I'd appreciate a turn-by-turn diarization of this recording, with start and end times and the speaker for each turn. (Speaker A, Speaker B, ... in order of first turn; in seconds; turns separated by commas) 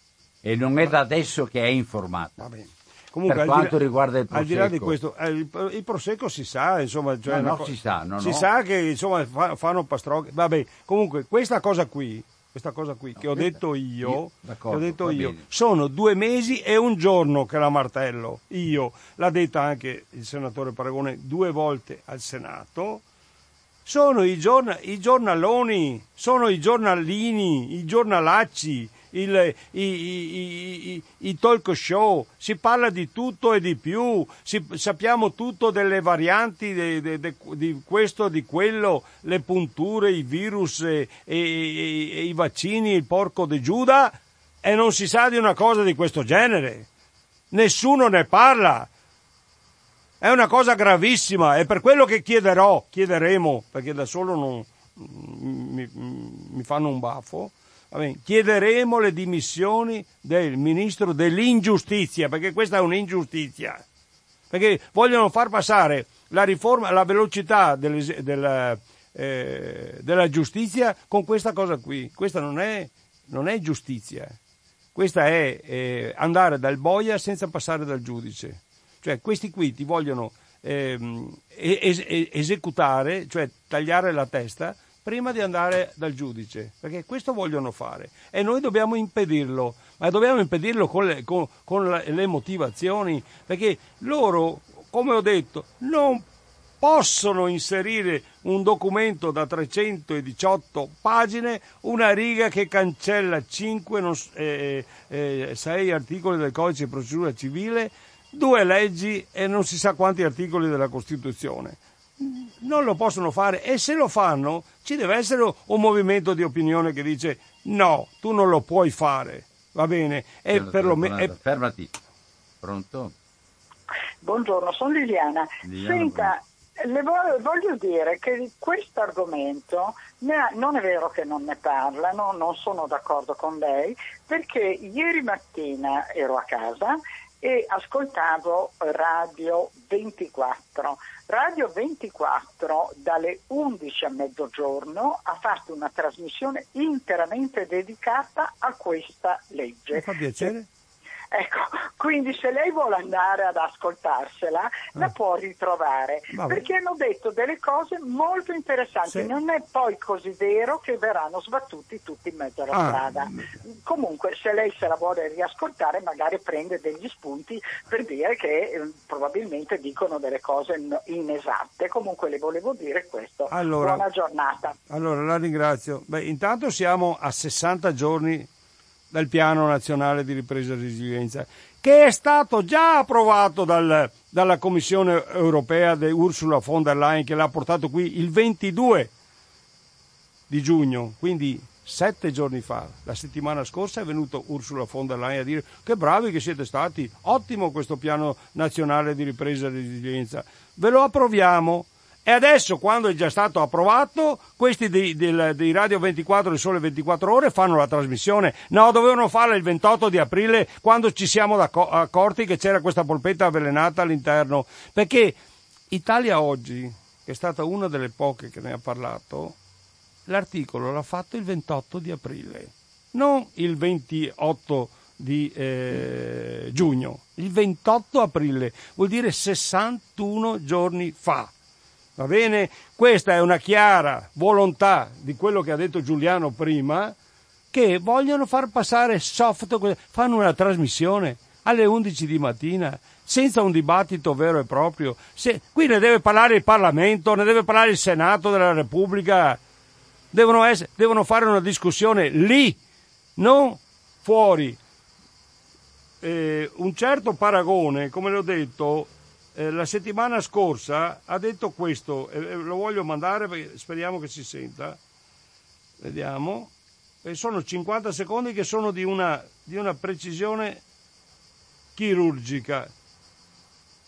Speaker A: 0.4-2.4, Speaker B: 2.4-3.8, Speaker A: 3.2-5.0, Speaker B: 4.3-23.0, Speaker A: 7.2-8.5, Speaker A: 13.2-15.4, Speaker B: 23.9-46.9, Speaker B: 47.5-48.9, Speaker B: 50.2-63.8, Speaker B: 64.5-74.4, Speaker B: 74.9-96.2, Speaker B: 96.8-121.3, Speaker A: 120.5-121.9, Speaker A: 122.6-123.1, Speaker C: 124.2-150.5, Speaker A: 125.6-126.3, Speaker B: 149.9-150.7, Speaker C: 151.3-174.7, Speaker B: 156.3-156.7, Speaker B: 159.1-159.3, Speaker B: 162.7-163.5, Speaker B: 173.5-174.1, Speaker B: 174.9-178.5, Speaker B: 179.1-189.1, Speaker B: 190.5-215.4, Speaker B: 215.9-219.6, Speaker B: 220.3-231.5, Speaker B: 232.2-237.1, Speaker B: 237.7-249.6, Speaker B: 250.3-252.8, Speaker B: 253.4-254.8, Speaker B: 256.2-265.0, Speaker B: 266.0-266.7, Speaker B: 267.2-270.8, Speaker B: 271.9-272.9